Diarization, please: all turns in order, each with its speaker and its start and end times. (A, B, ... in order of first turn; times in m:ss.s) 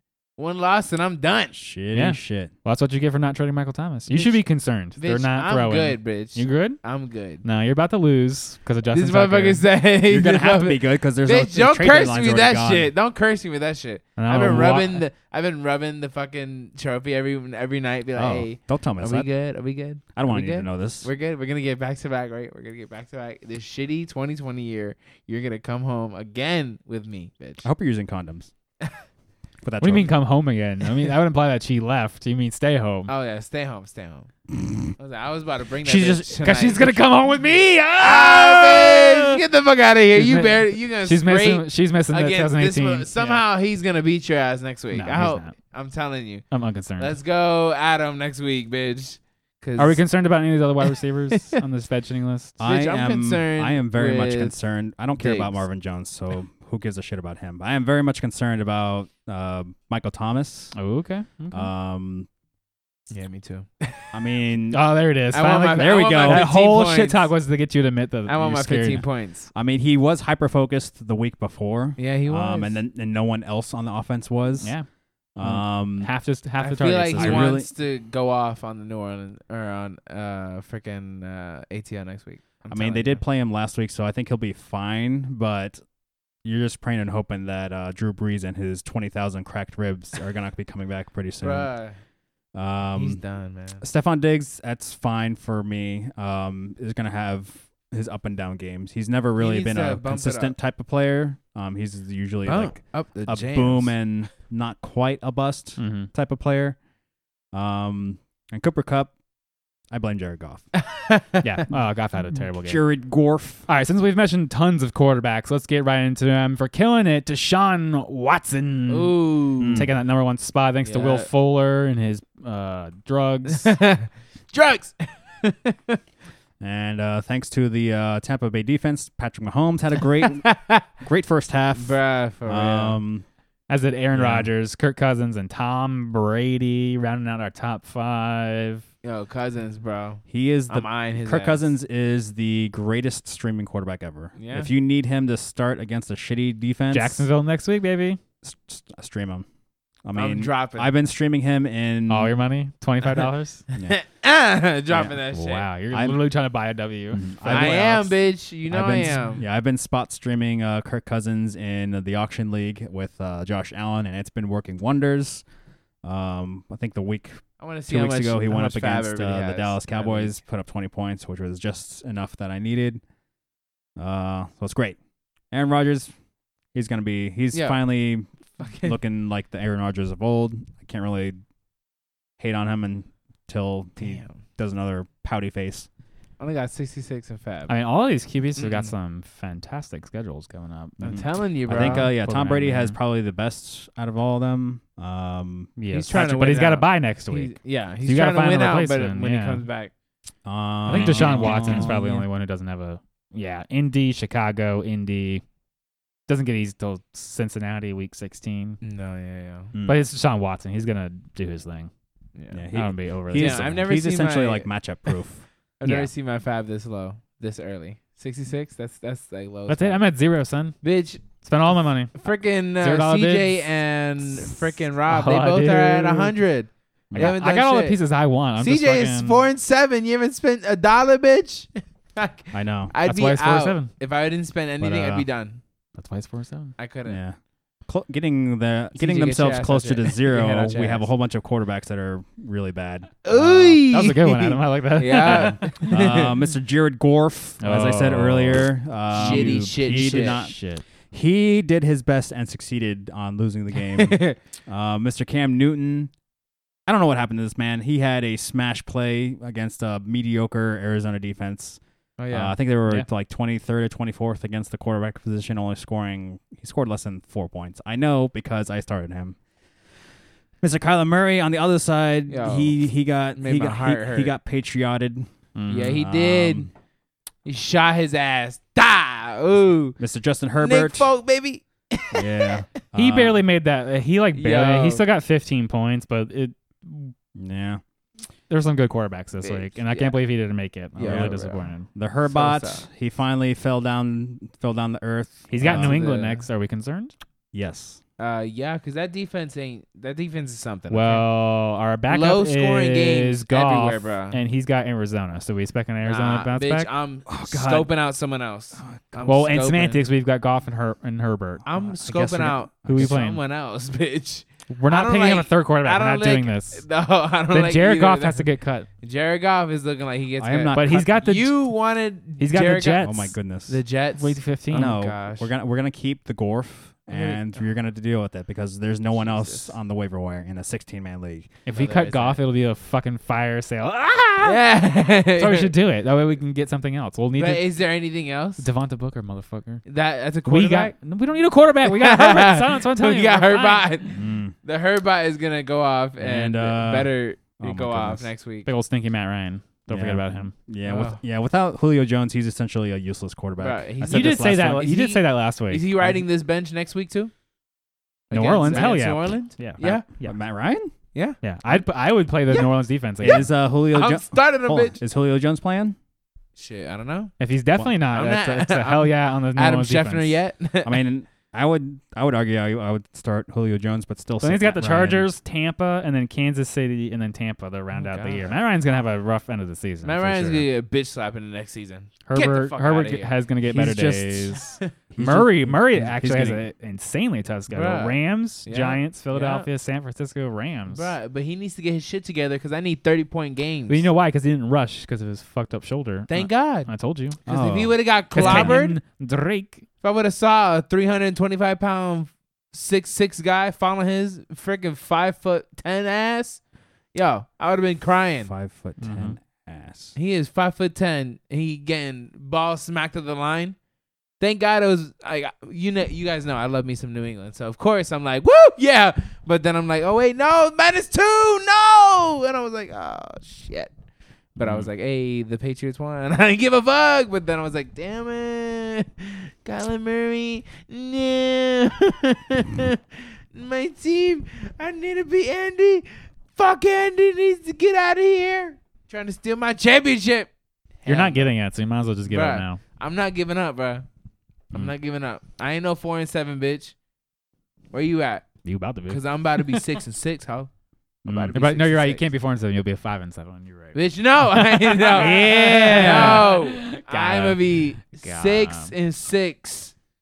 0:00.4-0:01.5 A
0:01.5-0:02.5 B
0:01.9-0:06.8 C
0:04.1-0:04.4 A
0:05.0-0:07.4 A
0:07.4-0:09.6 C
0:08.9-0:27.6 A
0:10.0-0:12.9 B
0:14.2-0:15.0 C
0:18.1-0:19.3 B
0:20.1-0:21.1 B
0:27.6-0:28.5 B
0:29.6-0:30.1 B
0:29.8-0:33.1 C
0:33.1-0:34.3 A
0:35.0-0:37.1 A
0:35.8-0:36.5 B
0:36.4-0:39.4 C
0:38.0-0:46.4 A
0:40.1-0:43.4 C
0:44.9-0:45.5 C
0:46.5-0:47.2 C
0:47.0-0:50.0 A
0:49.8-0:52.6 C
0:50.8-0:51.6 A
0:52.6-1:00.8 B
0:52.6-0:54.5 A
0:55.2-0:55.6 A
1:00.7-1:01.7 C
1:01.5-1:02.3 B
1:03.1-1:04.1 A
1:04.1-1:04.8 B
1:04.7-1:09.0 C
1:05.3-1:07.3 A
1:05.7-1:06.5 B
1:08.3-1:09.5 A
1:09.5-1:14.7 B
1:12.0-1:12.8 A
1:14.6-1:14.8 C
1:15.4-1:16.1 B
1:15.4-1:17.6 C
1:16.6-1:23.2 A
1:17.1-1:17.7 B
1:22.7-1:25.8 B
1:26.4-1:31.7 B
1:31.4-1:32.0 A
1:32.5-1:33.2 B
1:32.9-1:33.8 A
1:33.8-1:46.8 B
1:39.4-1:40.5 A
1:42.4-1:44.0 A
1:45.8-1:46.1 C
1:47.5-1:49.1 B
1:49.9-1:50.6 B
1:50.8-1:51.4 A
1:51.4-1:52.8 C
1:52.6-1:53.6 B
1:53.7-2:03.8 C
1:58.9-1:59.9 A
1:59.6-1:59.9 B
2:00.8-2:01.3 A
2:03.5-2:06.0 A
2:06.6-2:13.2 B
2:10.2-2:10.8 A
2:11.7-2:13.0 A
2:13.7-2:18.8 C
2:14.1-2:14.5 B
2:19.0-2:21.6 A
2:20.3-2:27.2 B
2:24.4-2:24.7 A
2:26.9-2:28.2 C
2:28.4-2:29.5 B
2:30.0-2:32.4 B
2:30.1-2:30.9 A
2:32.1-2:33.6 C
2:33.8-2:35.7 A
2:35.2-2:37.9 C
2:35.9-2:36.2 B
2:37.1-2:38.1 B
2:37.5-2:39.4 A
2:38.7-2:45.4 B
2:46.0-2:53.0 B
2:47.6-2:50.4 A
2:54.0-2:55.0 B
2:55.5-2:56.1 B
2:56.7-3:01.4 B
2:57.5-2:57.8 A
2:58.6-2:59.0 A
3:02.4-3:05.9 B
3:04.0-3:04.4 A
3:06.4-3:07.7 A
3:07.7-3:13.0 C
3:08.6-3:08.9 A
3:11.0-3:15.7 B
3:11.0-3:12.1 A
3:15.8-3:19.6 C
3:15.9-3:19.9 A
3:20.4-3:22.0 B
3:20.9-3:25.4 C
3:20.9-3:22.3 A
3:26.3-3:28.8 C
3:28.8-3:29.7 A
3:29.7-3:30.0 B
3:29.8-3:31.9 C
3:32.4-3:32.6 A
3:32.5-3:35.4 B
3:32.7-3:33.8 C
3:33.3-3:34.7 A
3:35.8-3:40.0 A
3:39.7-3:40.8 C
3:40.8-3:41.2 A
3:41.4-3:42.3 C
3:42.1-3:48.0 A
3:42.8-3:43.7 C
3:44.4-3:46.4 C
3:47.1-3:47.4 B
3:47.1-3:49.4 C
3:48.6-3:55.6 A
3:52.5-3:52.9 B
3:53.0-3:53.9 C
3:54.8-3:55.3 B
3:55.9-3:56.7 C
3:56.8-3:57.2 A
3:57.0-4:03.5 B
3:59.0-4:01.1 A
4:03.2-4:06.3 A
4:03.4-4:06.0 C
4:05.2-4:16.1 B
4:07.6-4:10.8 C
4:09.1-4:10.4 A
4:13.9-4:14.4 A
4:16.9-4:21.8 B
4:22.2-4:22.6 A
4:22.3-4:29.4 B
4:30.6-4:36.7 B
4:32.3-4:32.8 A
4:33.3-4:34.3 A
4:35.6-4:36.0 C
4:35.7-4:36.7 A
4:37.4-4:40.0 A
4:40.0-4:41.1 B
4:40.6-4:42.6 A
4:42.1-4:43.4 B
4:42.9-4:47.1 C
4:44.3-4:45.0 A
4:47.3-4:47.8 B
4:48.5-4:51.9 C
4:49.4-4:50.2 A
4:51.0-4:51.6 A
4:51.0-4:56.0 B
4:52.3-4:52.8 A
4:55.5-4:57.1 C
4:55.6-4:56.4 A
4:57.5-4:58.0 B
4:58.2-5:01.3 A
5:00.9-5:06.9 C
5:02.1-5:04.4 A
5:06.0-5:10.0 A
5:07.3-5:07.9 B
5:08.8-5:09.3 B
5:09.2-5:11.6 C
5:11.6-5:18.5 A
5:11.7-5:13.2 B
5:12.8-5:13.4 C
5:14.7-5:16.8 C
5:17.5-5:18.9 C
5:19.0-5:23.1 A
5:20.4-5:21.1 B
5:20.7-5:21.6 C
5:22.4-5:23.3 C
5:23.0-5:23.8 B
5:23.7-5:25.5 A
5:24.2-5:25.0 C
5:24.7-5:31.5 B
5:27.1-5:27.4 A
5:29.1-5:29.7 A
5:31.6-5:37.8 C
5:31.7-5:32.4 A
5:34.4-5:35.7 A
5:37.4-5:38.6 A
5:38.6-5:39.8 C
5:39.8-5:40.9 A
5:40.4-5:43.9 C
5:41.8-5:48.7 A
5:44.1-5:44.5 B
5:46.2-5:48.3 B
5:48.6-5:50.5 C
5:49.9-5:54.9 B
5:50.8-5:51.2 A
5:53.6-5:57.3 A
5:54.0-5:55.9 C
5:58.3-6:00.0 A
5:58.3-6:00.4 C
5:58.6-5:58.9 B
5:59.8-6:00.9 B
6:01.1-6:01.4 A
6:01.4-6:03.4 C
6:03.2-6:06.0 B
6:03.2-6:05.0 A
6:06.6-6:07.3 A
6:07.4-6:10.4 C
6:08.0-6:11.0 A
6:10.8-6:15.3 B
6:14.4-6:20.7 C
6:17.9-6:18.5 A
6:20.0-6:23.3 A
6:22.3-6:31.1 C
6:23.6-6:24.6 B
6:24.6-6:24.9 A
6:25.1-6:26.6 B
6:27.7-6:29.7 A
6:30.9-6:34.1 A
6:33.9-6:37.4 C
6:36.3-6:36.9 A
6:37.4-6:38.8 B
6:37.4-6:39.0 A
6:38.3-6:39.8 C
6:40.0-6:46.6 A
6:47.1-6:48.5 A
6:48.4-6:50.1 B
6:49.0-6:49.3 C
6:50.1-6:53.8 A
6:54.4-7:03.9 A
7:04.6-7:04.9 B
7:04.6-7:20.5 A
7:21.0-7:21.5 A
7:21.0-7:22.8 C
7:22.3-7:24.0 A
7:24.7-7:27.0 A
7:27.9-7:28.5 A
7:28.6-7:29.9 C
7:29.1-7:30.7 A
7:31.2-7:31.6 B
7:31.2-7:32.2 A
7:31.5-7:34.0 C
7:33.9-7:39.9 A
7:34.5-7:38.9 C
7:35.3-7:36.5 B